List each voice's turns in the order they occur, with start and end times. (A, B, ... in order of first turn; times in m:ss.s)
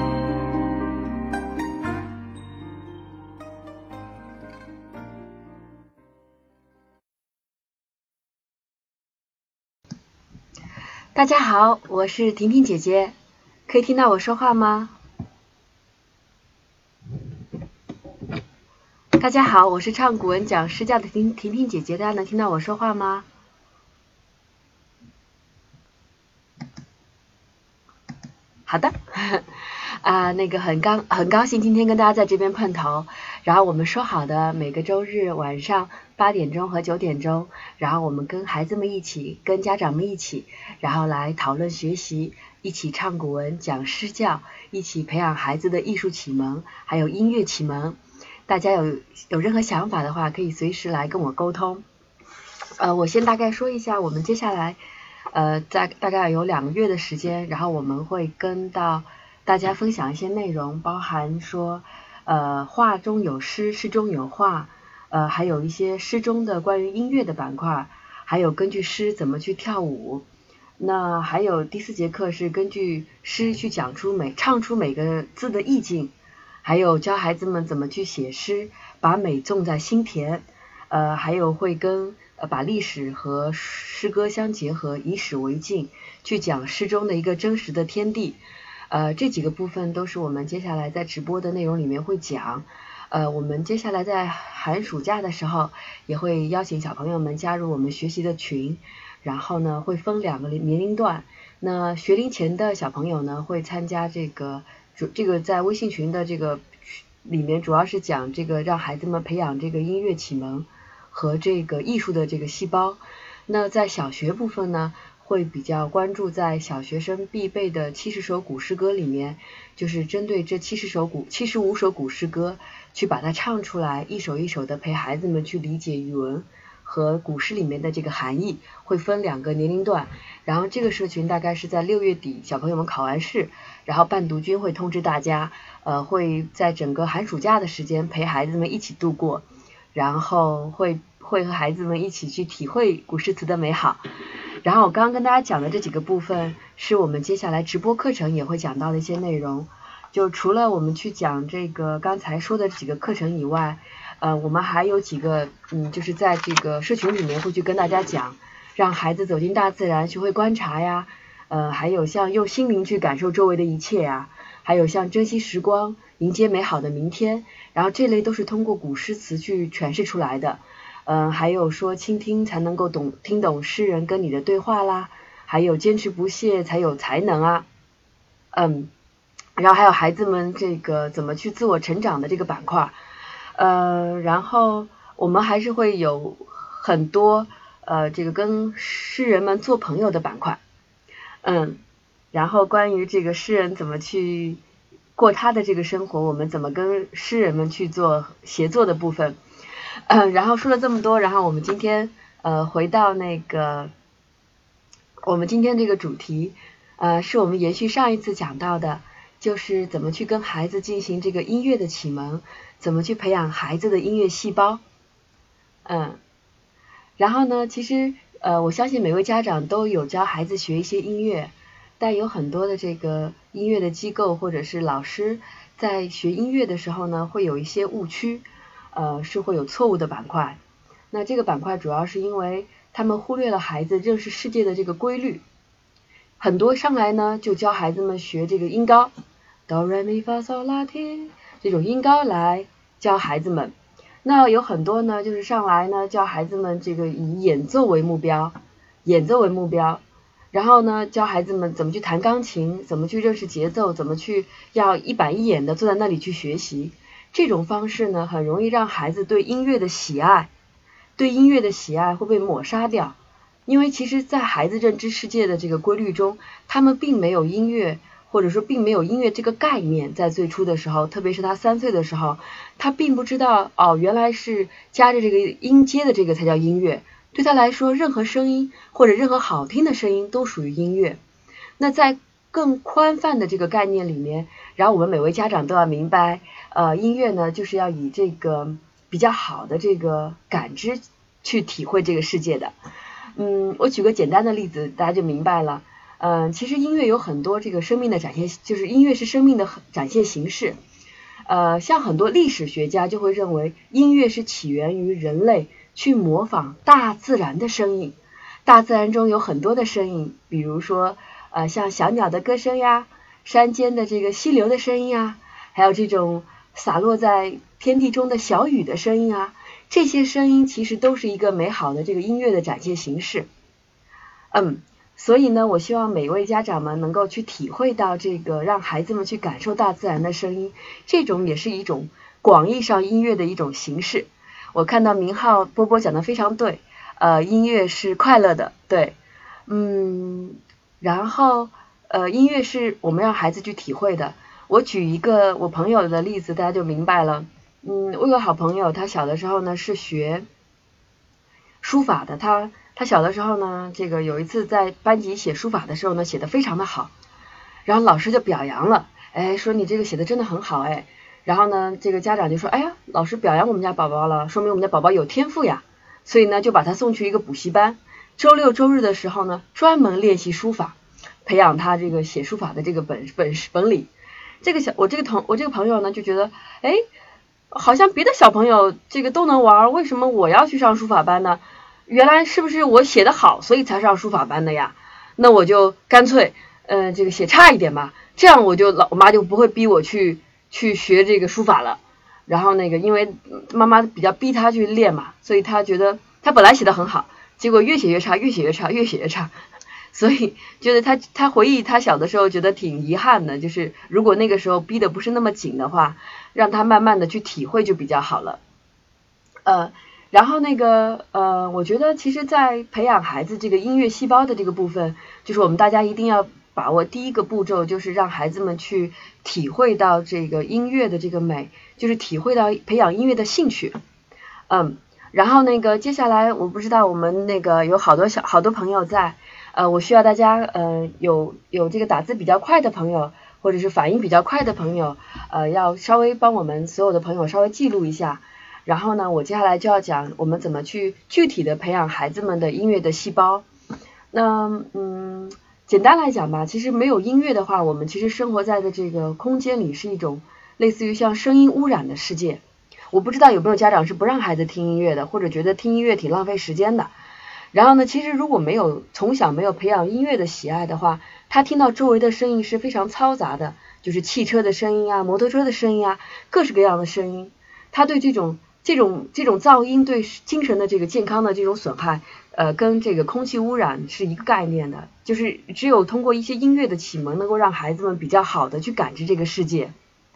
0:11.2-0:13.1 A
0:13.7-0:14.9 A
0:19.2-0:23.2 A
0:28.7-0:29.0 A
0:30.0-0:48.0 A
0:48.5-0:51.8 A
0:52.8-0:54.8 A
0:55.3-1:10.2 A
1:10.8-1:16.1 A
1:16.6-1:28.4 A
1:28.9-1:46.6 A
1:47.2-2:24.0 A
2:24.6-2:57.6 A
2:58.5-2:58.9 A
2:59.6-3:03.0 A
3:03.6-3:10.6 A
3:11.4-3:11.8 A
3:12.3-3:14.6 A
3:15.2-3:19.4 A
3:20.1-3:23.9 A
3:25.3-3:34.8 A
3:35.9-3:36.2 A
3:37.2-3:50.6 A
3:51.1-3:55.4 A
3:56.4-3:59.1 A
3:59.7-4:03.7 A
4:04.2-4:08.5 A
4:09.0-4:10.0 A
4:10.5-4:20.5 A
4:21.2-4:23.1 A
4:23.7-4:41.2 A
4:41.8-4:52.7 A
4:53.4-5:00.7 A
5:01.5-5:08.1 A
5:08.6-5:23.4 A
5:24.5-5:39.1 A
5:39.7-5:40.5 A
5:41.0-5:50.4 A
5:51.8-5:57.1 A
5:57.9-6:10.9 A
6:11.4-6:14.0 A
6:14.6-6:16.5 A
6:15.5-6:16.3 B
6:17.8-6:21.6 A
6:18.4-6:20.6 B
6:22.1-6:24.9 A
6:22.4-6:24.4 B
6:25.4-6:26.5 B
6:25.4-6:32.0 A
6:27.4-6:30.1 B
6:32.5-6:33.2 A
6:32.5-6:33.1 B
6:33.8-6:39.3 A
6:33.8-6:36.7 B
6:37.6-6:39.4 B
6:40.2-6:46.1 B
6:40.2-6:46.1 A
6:46.6-6:48.5 B
6:46.6-6:48.5 A
6:49.7-7:03.9 B
6:50.4-6:52.5 A
6:53.0-7:00.0 A
7:01.7-7:02.2 A
7:05.3-7:23.6 B
7:08.4-7:08.7 A
7:09.9-7:10.3 A
7:11.1-7:11.6 A
7:12.8-7:13.9 A
7:24.3-7:32.6 B
7:33.1-7:37.0 B
7:37.7-7:59.9 B